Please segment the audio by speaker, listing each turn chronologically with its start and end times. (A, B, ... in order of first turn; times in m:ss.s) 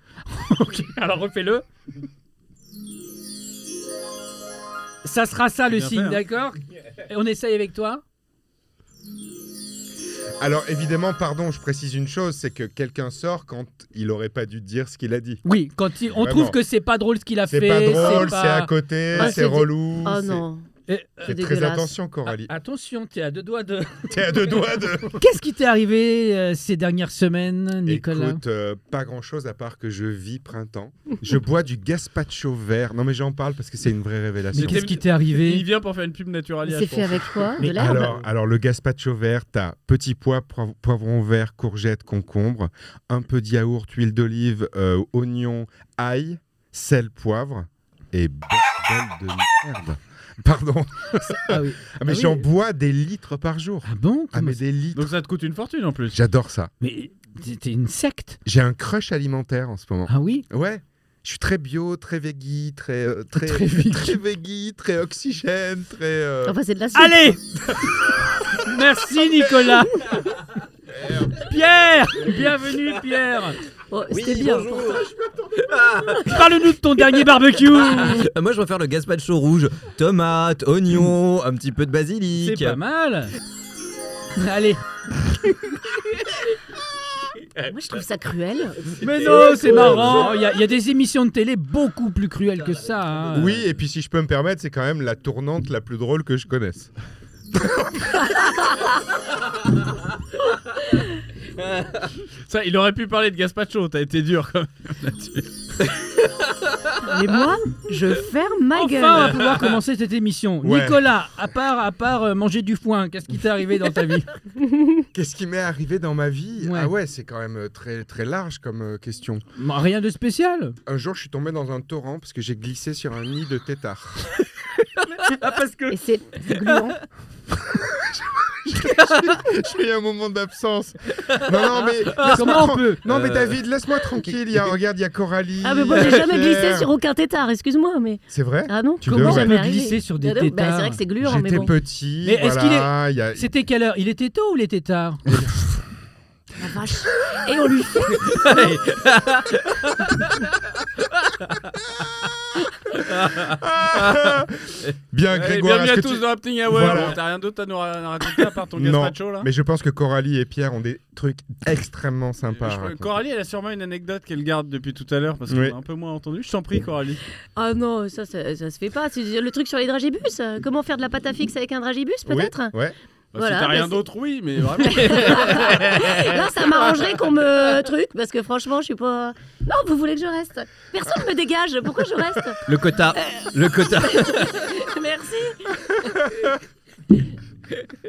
0:00.3-0:01.6 A
0:05.0-0:08.0 A
0:05.7-0:06.2 B
0:10.4-0:15.4 C
0:15.4-0:19.4 A
0:16.1-0:16.6 C
0:17.5-0:20.4 C
0:17.8-0:18.3 D
0:19.1-0:20.7 D
0:20.9-0:21.4 A
0:21.2-0:22.5 C
0:21.2-0:21.9 D
0:22.3-0:24.2 A
0:24.1-0:25.2 C
0:25.2-0:28.4 A
0:27.8-0:34.9 C
0:34.5-0:35.6 A
0:34.5-0:37.6 B
0:36.6-0:38.1 D
0:37.6-0:55.1 C
0:51.5-0:52.4 A
0:53.8-0:54.6 A
0:55.0-0:56.2 B
0:56.1-0:56.7 C
0:56.8-0:58.4 A
0:58.4-1:06.6 C
1:00.1-1:00.4 A
1:03.4-1:04.2 A
1:06.4-1:07.3 D
1:06.9-1:07.4 A
1:08.6-1:10.2 A
1:11.3-1:13.6 A
1:13.9-1:15.0 D
1:14.1-1:16.8 E
1:16.2-1:18.3 A
1:17.8-1:22.8 E
1:22.3-1:23.3 A
1:24.3-1:24.8 A
1:27.6-1:30.0 D
1:29.0-1:33.6 A
1:29.0-1:30.1 B
1:33.3-1:36.9 C
1:42.4-1:45.5 B
1:47.0-1:49.3 D
1:48.7-1:54.3 A
1:50.6-1:51.2 C
1:54.6-1:55.0 D
1:55.1-1:59.4 C
1:56.6-1:56.9 A
1:59.6-2:00.8 A
2:00.8-2:04.3 C
2:05.2-2:06.8 A
2:05.9-2:07.0 D
2:07.7-2:16.9 C
2:08.8-2:09.2 E
2:11.2-2:13.6 E
2:12.3-2:13.0 A
2:15.6-2:21.7 D
2:18.3-2:19.8 C
2:19.1-2:21.0 A
2:21.2-2:23.5 C
2:22.2-2:25.3 A
2:26.6-2:28.7 D
2:28.6-2:30.3 E
2:32.9-2:37.2 C
2:33.2-2:33.4 B
2:35.3-2:39.5 B
2:38.7-2:43.2 C
2:42.5-2:47.2 B
2:45.5-2:45.8 C
2:47.5-2:52.8 D
2:52.3-2:52.9 C
2:53.3-2:56.4 B
2:53.3-2:54.0 D
2:54.8-3:02.6 D
3:02.7-3:04.6 E
3:03.1-3:06.5 D